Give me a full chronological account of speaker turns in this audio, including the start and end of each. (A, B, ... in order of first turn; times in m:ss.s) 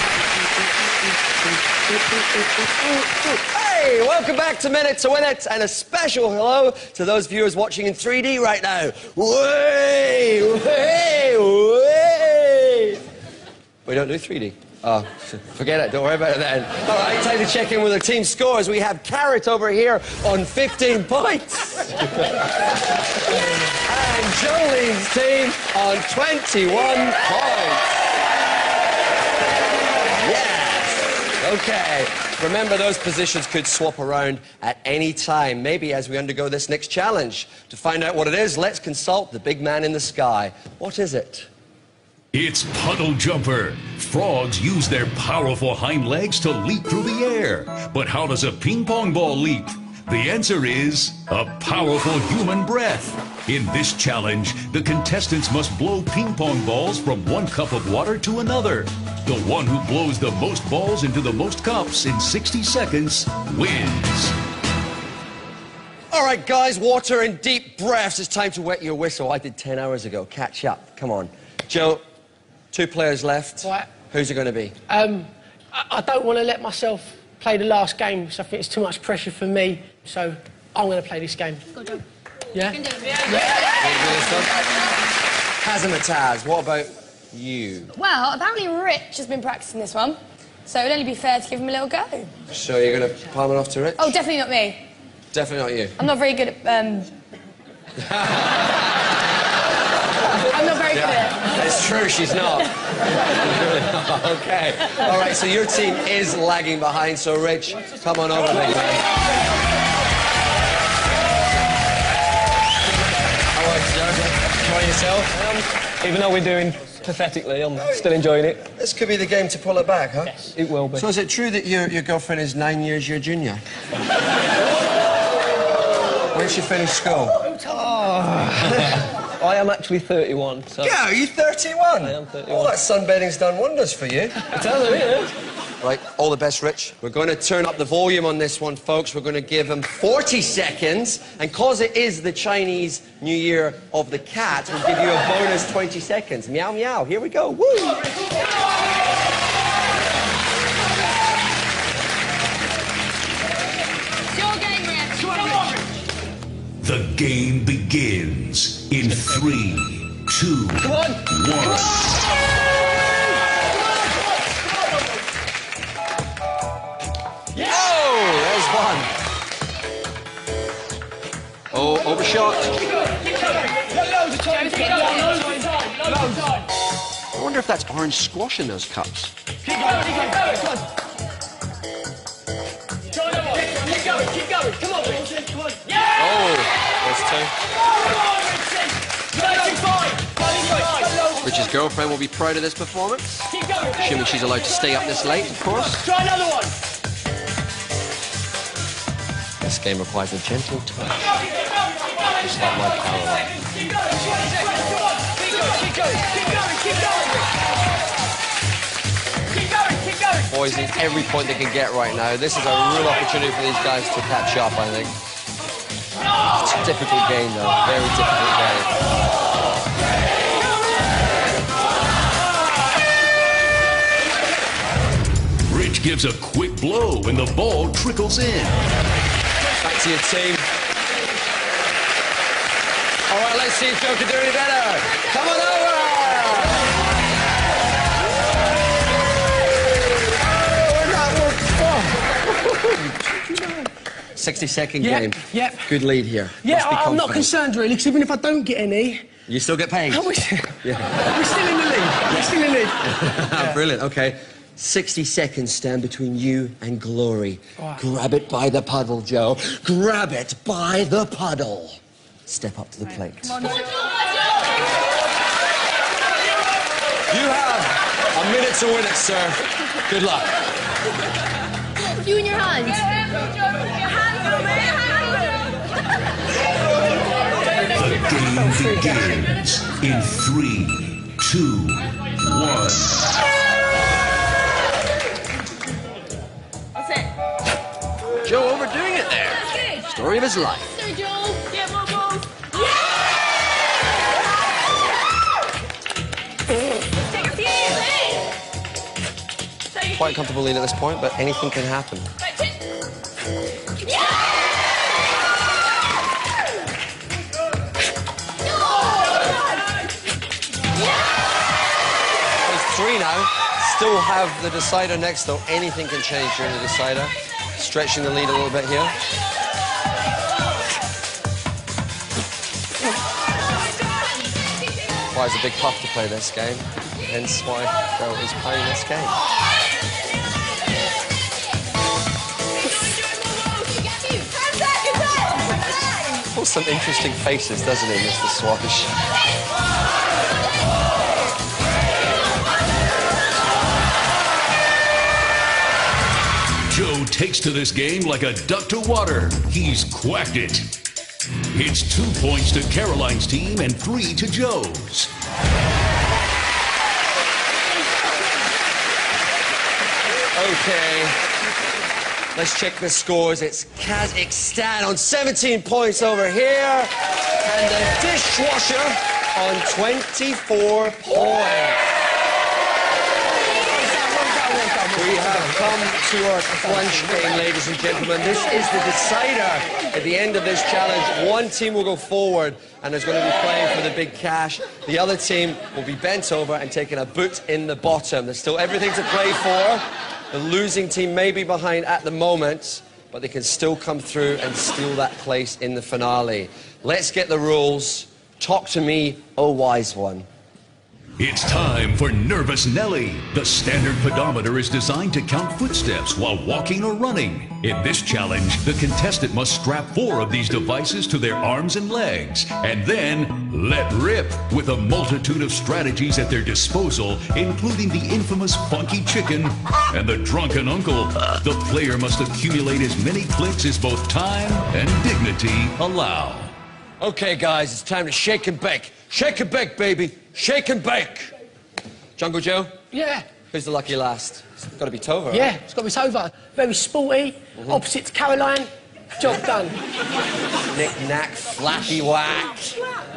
0:00.8-0:13.0 A
0:13.9-0:22.5 A
0:23.7-0:28.0 A
0:30.1-0:41.5 A
0:42.3-1:04.4 B
1:06.1-1:12.0 A
1:12.7-1:14.8 A
1:14.9-1:21.7 C
1:22.5-1:23.7 C
1:22.8-1:23.0 D
1:23.8-1:24.6 A
1:25.6-1:27.9 A
1:28.0-1:32.3 E
1:32.5-1:34.1 A
1:34.0-1:34.8 E
1:35.3-1:36.0 A
1:36.0-1:37.1 E
1:38.0-1:38.9 A
1:40.4-1:41.5 E
1:40.9-1:49.1 A
1:53.5-1:54.7 A
1:54.6-1:58.7 F
1:57.8-2:03.6 A
2:00.5-2:01.1 F
2:06.3-2:07.4 A
2:07.5-2:11.0 F
2:10.8-2:14.4 A
2:12.0-2:12.8 F
2:14.4-2:15.3 F
2:15.8-2:28.2 A
2:34.4-2:35.3 E
2:35.5-2:35.7 C
2:36.8-2:42.2 B
2:40.9-2:41.2 C
2:47.6-2:49.1 A
2:51.7-2:52.8 A
2:53.9-2:56.6 C
2:57.3-2:59.4 A
2:59.7-3:00.6 C
3:03.3-3:05.4 C
3:06.1-3:07.5 A
3:09.4-3:11.0 C
3:11.4-3:16.1 A
3:19.6-3:21.4 A
3:22.4-3:23.5 A
3:25.5-3:27.3 C
3:30.5-3:35.2 A
3:36.5-3:38.9 A
3:45.7-3:48.8 B
3:49.8-3:50.7 A
3:53.3-3:56.9 A
4:00.8-4:03.9 C
4:04.4-4:07.5 A
4:05.0-4:06.0 C
4:06.6-4:09.3 C
4:09.5-4:10.3 A
4:10.1-4:13.8 C
4:10.8-4:11.3 A
4:13.0-4:23.8 A
4:27.3-4:30.6 A
4:32.0-4:33.1 D
4:37.9-4:43.4 B
4:48.4-4:51.0 A
4:51.0-4:51.9 D
5:00.1-5:02.3 A
5:12.6-5:19.2 A
5:25.3-5:29.4 A
5:36.5-5:39.1 A
5:46.9-5:50.9 B
5:51.7-5:55.3 B
6:00.5-6:01.4 A
6:02.6-6:12.0 A
6:13.9-6:15.8 C
6:15.1-6:40.5 A
6:16.8-6:17.4 C
6:41.4-7:06.7 B
7:07.2-7:11.5 A
7:12.4-7:13.0 A
7:13.1-7:13.5 C
7:13.7-7:15.8 A
7:15.5-7:20.0 C
7:17.8-7:18.0 A
7:20.9-7:23.0 A